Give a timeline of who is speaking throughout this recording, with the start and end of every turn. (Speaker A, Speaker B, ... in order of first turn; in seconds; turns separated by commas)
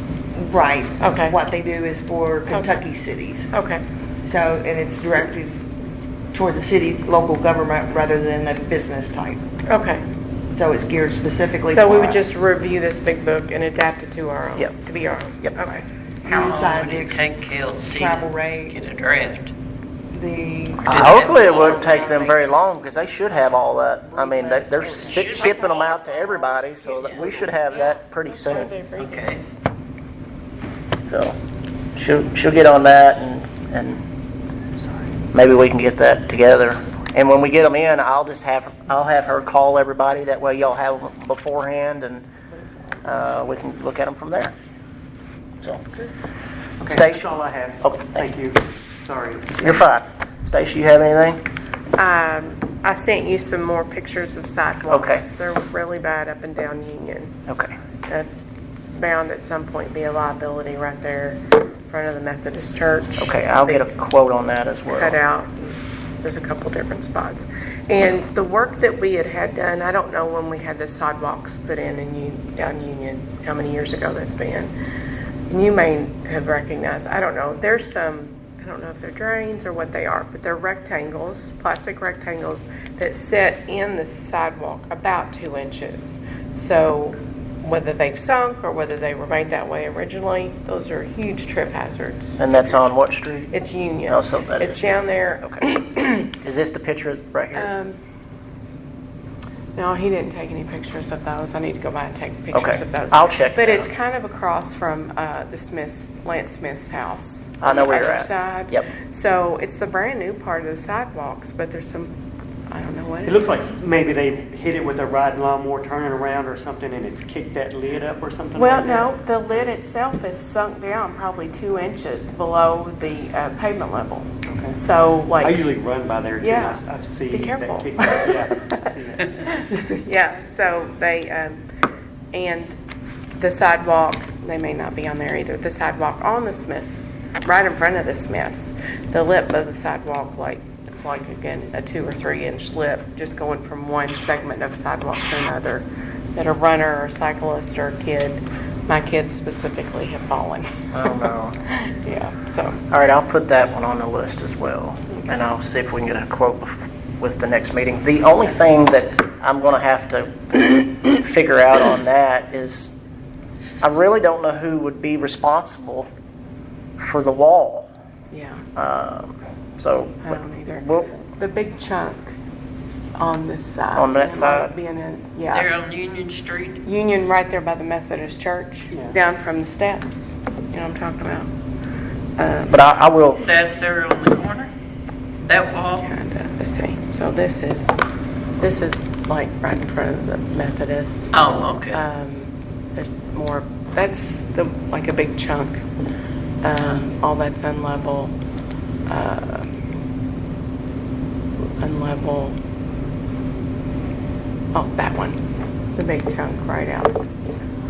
Speaker A: 0.3-3.5, Speaker B: 1.0-1.4, Speaker B: 3.5-3.8, Speaker A: 4.2-5.7, Speaker A: 6.3-9.4, Speaker B: 9.7-10.1, Speaker A: 10.5-12.4, Speaker B: 11.7-15.8, Speaker A: 16.2-17.3, Speaker C: 16.2-19.5, Speaker A: 17.9-18.8, Speaker A: 20.1-22.0, Speaker D: 20.9-28.7, Speaker C: 20.9-22.4, Speaker A: 24.1-25.2, Speaker C: 25.0-26.5, Speaker B: 25.3-29.3, Speaker C: 29.0-29.4, Speaker D: 31.1-31.4, Speaker D: 32.0-34.0, Speaker D: 35.3-42.2, Speaker D: 43.0-44.5, Speaker E: 46.8-49.8, Speaker D: 46.9-48.3, Speaker D: 49.6-51.4, Speaker B: 52.0-57.4, Speaker D: 54.9-55.2, Speaker D: 57.5-57.7, Speaker B: 58.9-63.9, Speaker D: 63.2-65.2, Speaker B: 64.9-74.7, Speaker B: 75.5-92.9, Speaker D: 92.4-93.5, Speaker B: 93.5-96.3, Speaker D: 94.1-95.6, Speaker D: 96.3-97.7, Speaker B: 97.5-98.0, Speaker B: 99.8-112.1, Speaker D: 102.5-103.9, Speaker D: 107.6-108.9, Speaker B: 112.7-113.6, Speaker E: 113.2-119.1, Speaker B: 118.5-125.6, Speaker E: 124.5-124.8, Speaker E: 125.4-129.5, Speaker B: 126.4-131.6, Speaker B: 132.3-132.8, Speaker B: 133.4-152.8, Speaker D: 150.9-151.5, Speaker D: 152.9-162.9, Speaker D: 163.8-166.1, Speaker D: 167.0-167.9, Speaker B: 168.3-168.6, Speaker D: 168.8-171.2, Speaker B: 170.2-172.3, Speaker B: 173.2-175.7, Speaker D: 173.9-174.7, Speaker C: 175.5-176.8, Speaker B: 176.8-181.5, Speaker E: 178.9-179.2, Speaker B: 182.4-182.8, Speaker D: 182.7-183.4, Speaker C: 183.4-184.7, Speaker C: 185.4-186.1, Speaker B: 186.0-187.9, Speaker B: 188.6-195.8, Speaker C: 191.3-192.0, Speaker B: 196.6-198.3, Speaker B: 199.1-199.7, Speaker B: 201.8-202.6, Speaker B: 204.7-205.4, Speaker B: 205.9-207.2